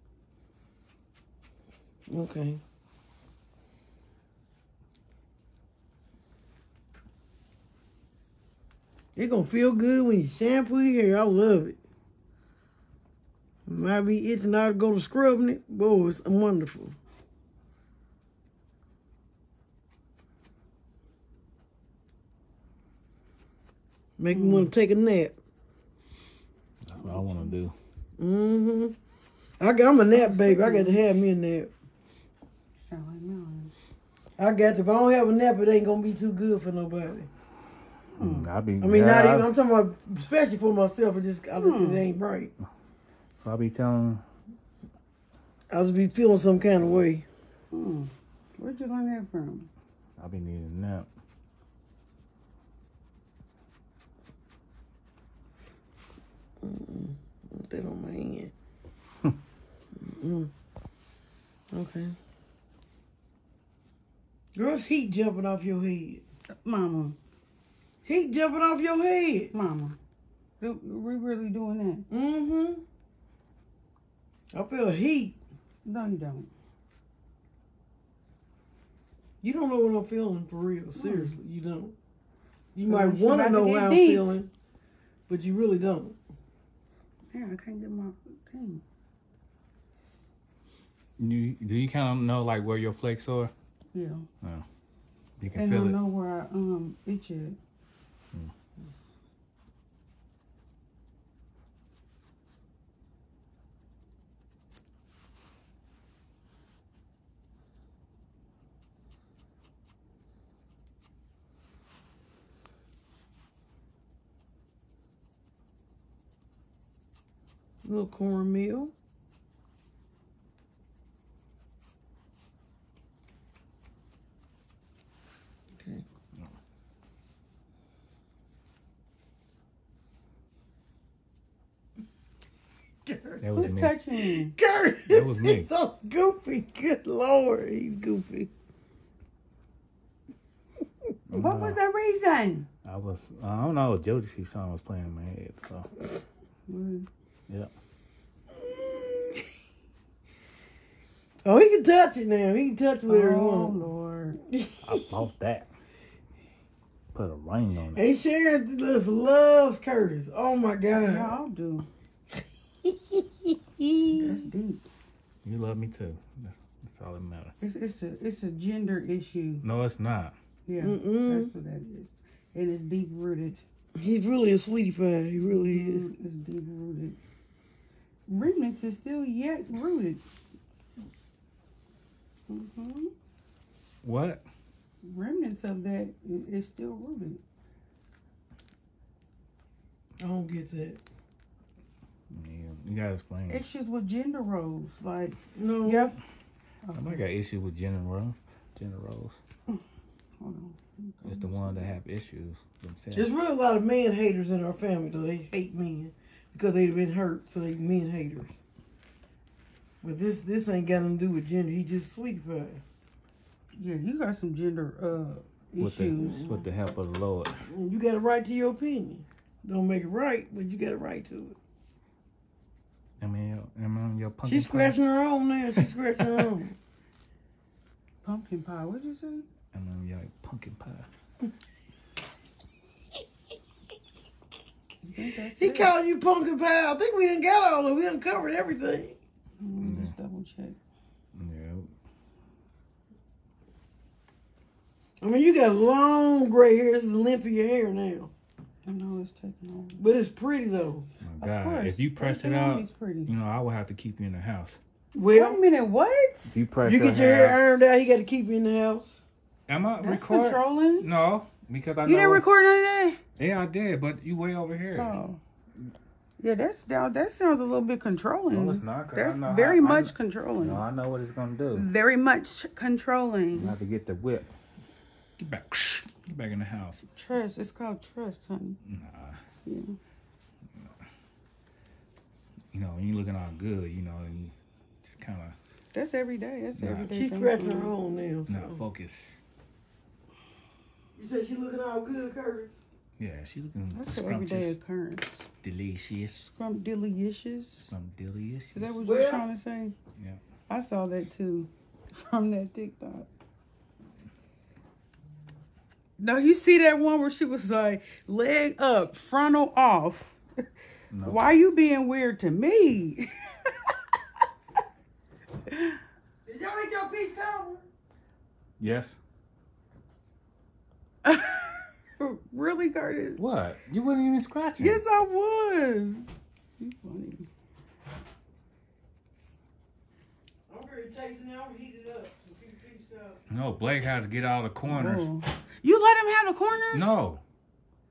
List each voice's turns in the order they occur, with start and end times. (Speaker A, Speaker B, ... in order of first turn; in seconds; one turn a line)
Speaker A: 2.1-2.6
Speaker A: 9.2-11.8
Speaker A: 13.7-16.9
Speaker A: 24.2-25.4
Speaker B: 24.3-24.7
Speaker C: 26.9-27.7
Speaker B: 27.0-27.5
Speaker A: 28.2-28.9
Speaker A: 29.6-31.7
Speaker B: 30.1-31.0
Speaker B: 32.8-33.7
Speaker A: 34.4-37.3
Speaker B: 38.2-38.5
Speaker C: 38.2-39.5
Speaker A: 38.8-42.5
Speaker B: 41.6-42.1
Speaker C: 43.4-44.2
Speaker A: 45.7-47.2
Speaker B: 47.7-49.7
Speaker C: 50.2-51.1
Speaker A: 56.6-58.5
Speaker A: 60.0-60.5
Speaker A: 61.7-62.1
Speaker A: 64.6-66.2
Speaker B: 66.5-67.2
Speaker A: 68.0-69.5
Speaker B: 69.5-70.0
Speaker B: 70.6-72.1
Speaker A: 72.1-72.8
Speaker A: 74.5-75.4
Speaker B: 75.8-76.5
Speaker A: 79.4-82.0
Speaker B: 81.0-81.4
Speaker A: 82.8-84.5
Speaker B: 82.9-84.3
Speaker A: 85.3-86.2
Speaker B: 87.3-88.8
Speaker C: 91.2-93.5
Speaker B: 93.9-94.3
Speaker C: 95.4-96.0
Speaker B: 95.5-97.6
Speaker A: 117.8-118.9
Speaker A: 125.8-126.0
Speaker A: 133.1-133.4
Speaker C: 133.4-133.9
Speaker B: 133.6-134.6
Speaker A: 134.3-138.5
Speaker C: 135.1-135.7
Speaker C: 141.3-141.8
Speaker B: 141.3-142.7
Speaker C: 142.8-145.9
Speaker B: 146.7-147.1
Speaker A: 148.6-149.4
Speaker A: 151.4-153.8
Speaker B: 153.1-154.4
Speaker A: 154.5-155.0
Speaker C: 154.8-155.7
Speaker C: 157.1-158.0
Speaker A: 157.9-161.4
Speaker B: 160.9-161.9
Speaker A: 162.8-164.5
Speaker B: 164.1-164.9
Speaker C: 165.4-167.5
Speaker B: 167.6-169.7
Speaker C: 169.6-170.3
Speaker B: 170.7-173.6
Speaker A: 170.8-171.5
Speaker A: 174.0-176.1
Speaker B: 175.4-177.2
Speaker B: 178.3-180.2
Speaker B: 182.5-183.1
Speaker C: 184.0-184.4
Speaker B: 185.0-187.4
Speaker A: 190.2-191.0
Speaker C: 192.3-193.7
Speaker B: 193.5-196.2
Speaker A: 195.6-196.2
Speaker B: 196.9-197.2
Speaker C: 196.9-199.4
Speaker B: 200.4-201.9
Speaker C: 201.2-203.3
Speaker A: 203.1-208.6
Speaker A: 210.0-212.8
Speaker B: 213.8-216.4
Speaker C: 215.8-217.6
Speaker A: 216.2-216.7
Speaker A: 217.7-221.6
Speaker C: 223.2-225.0
Speaker A: 224.4-226.8
Speaker C: 225.8-226.5
Speaker B: 228.2-229.4
Speaker C: 229.7-231.1
Speaker B: 235.0-235.9
Speaker A: 235.6-239.2
Speaker B: 239.6-240.8
Speaker C: 239.8-240.1
Speaker C: 241.3-241.9
Speaker A: 245.2-248.3
Speaker B: 248.9-250.0
Speaker A: 250.0-251.1
Speaker C: 251.2-254.8
Speaker B: 251.4-253.3
Speaker A: 255.1-255.6
Speaker B: 255.3-256.6
Speaker C: 256.5-257.6
Speaker A: 256.8-259.2
Speaker C: 259.7-262.4
Speaker B: 260.0-261.1
Speaker B: 262.1-263.2
Speaker C: 263.4-265.2
Speaker B: 264.9-265.4
Speaker B: 266.4-270.9
Speaker C: 268.5-271.9
Speaker B: 271.7-273.8
Speaker C: 273.5-274.5
Speaker C: 275.4-277.0
Speaker B: 277.1-278.8
Speaker C: 278.8-279.4
Speaker B: 279.6-280.0
Speaker C: 282.7-284.5
Speaker C: 285.1-285.6
Speaker B: 285.9-287.9
Speaker C: 286.8-287.1
Speaker A: 287.1-288.8
Speaker C: 288.5-289.4
Speaker A: 291.2-292.8
Speaker C: 293.2-294.8
Speaker B: 293.9-295.5
Speaker C: 295.6-296.4
Speaker B: 296.4-297.9
Speaker C: 297.9-299.0
Speaker B: 298.7-299.9
Speaker A: 299.0-299.4
Speaker C: 300.2-300.4
Speaker B: 300.7-303.3
Speaker B: 306.2-310.6
Speaker C: 311.1-311.6
Speaker B: 311.2-313.9
Speaker B: 315.7-316.0
Speaker A: 316.5-317.8
Speaker C: 318.8-319.2
Speaker B: 321.2-323.4
Speaker C: 323.4-325.0
Speaker B: 324.8-327.5
Speaker A: 330.7-333.4
Speaker C: 333.5-335.3
Speaker B: 334.9-337.1
Speaker C: 336.9-337.4